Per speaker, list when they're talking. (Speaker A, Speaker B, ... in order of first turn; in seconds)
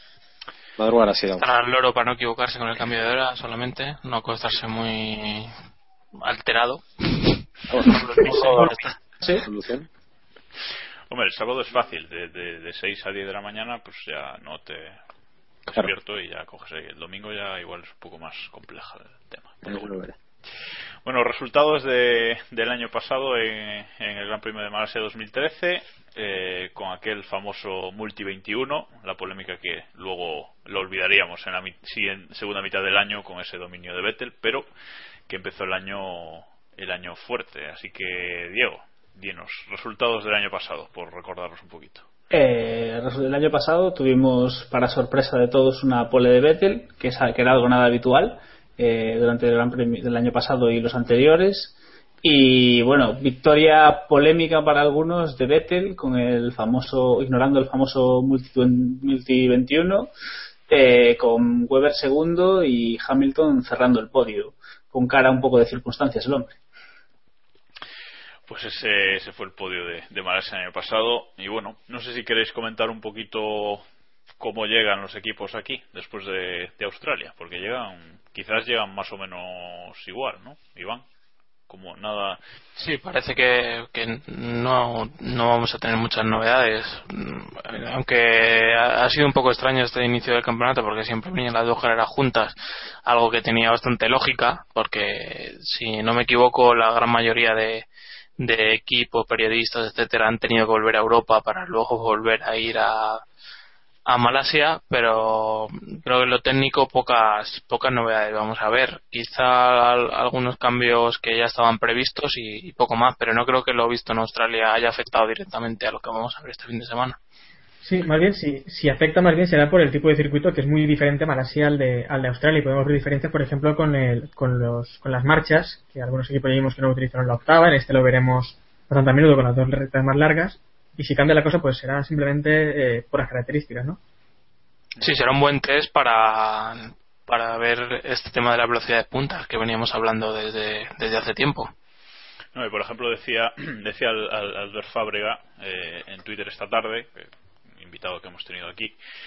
Speaker A: 0.8-1.4, 7.7-8.8, 9.4-9.9, 15.7-15.9, 19.6-20.1
Speaker B: 1.4-5.5, 6.2-6.8, 7.8-8.9, 82.8-97.9, 98.4-103.2, 104.0-117.2, 135.0-141.7
Speaker C: 8.2-9.4, 42.3-60.1, 60.7-66.5
Speaker D: 11.1-15.0, 15.7-19.9, 21.0-34.7, 35.3-42.0, 68.5-73.8, 74.4-81.0, 81.7-82.4, 142.5-149.0
Speaker E: 117.8-134.0